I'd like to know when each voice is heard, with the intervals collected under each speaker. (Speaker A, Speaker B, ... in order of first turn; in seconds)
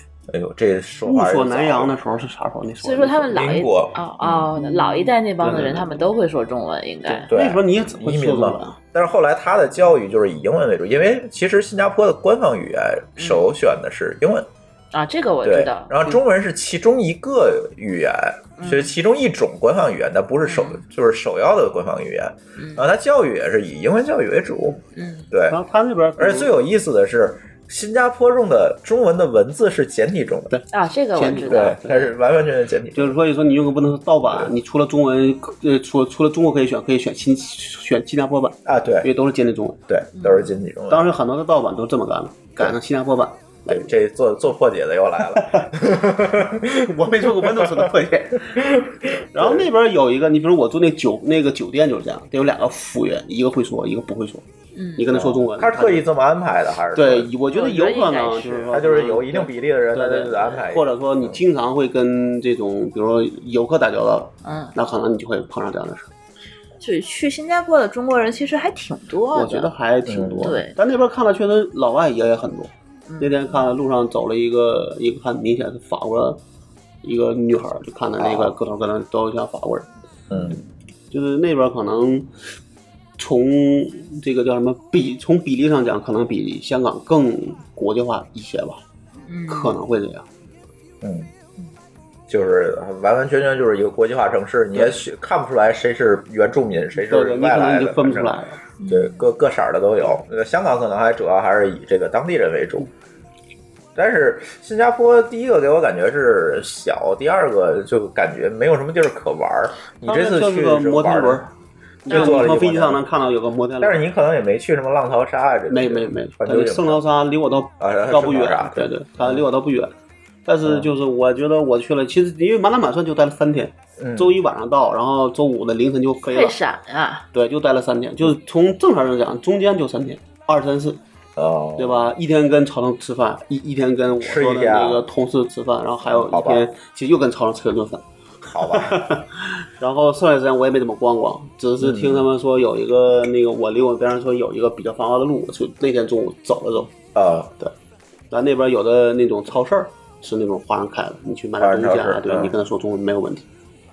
Speaker A: 0.3-1.9, 3.3-4.5, 7.3-14.5, 15.4-25.6, 26.2-30.5, 31.3-33.2, 34.2-34.5, 38.6-39.1, 39.9-41.1, 43.7-47.9, 48.5-49.7, 55.1-57.3, 58.7-61.4, 70.1-70.5, 78.2-78.5, 80.3-80.6, 91.0-91.3, 92.3-98.3, 98.9-102.9, 103.9-111.5, 112.1-113.0, 113.8-117.0, 117.8-119.4, 124.0-124.3, 131.3-132.1, 134.2-135.0, 136.1-136.6, 138.5-139.0, 141.8-142.2, 147.1-147.5, 151.6-152.5
Speaker B: 1.0-3.6, 4.6-6.1, 7.0-8.8, 25.5-26.6, 30.5-31.9, 32.9-39.8, 40.9-43.9, 45.3-45.7, 46.7-48.7, 49.3-54.4, 55.0-56.1, 56.9-66.1, 69.3-76.4, 77.0-79.9, 81.1-82.3, 83.2-88.8, 89.5-90.2, 97.0-98.6, 110.0-111.5, 112.0-114.0, 115.7-119.9, 120.5-126.6, 127.3-131.0, 131.8-146.9, 148.3-153.4
Speaker C: 2.8-7.3, 13.2-13.5, 14.9-16.1, 18.6-18.9, 20.4-20.8, 22.6-22.8, 24.9-25.3, 30.7-32.1, 40.1-40.5, 54.8-55.1, 57.5-58.7, 64.4-64.7, 66.8-69.7, 70.4-70.7, 89.3-89.8, 98.8-99.2, 112.1-112.3, 126.3-127.2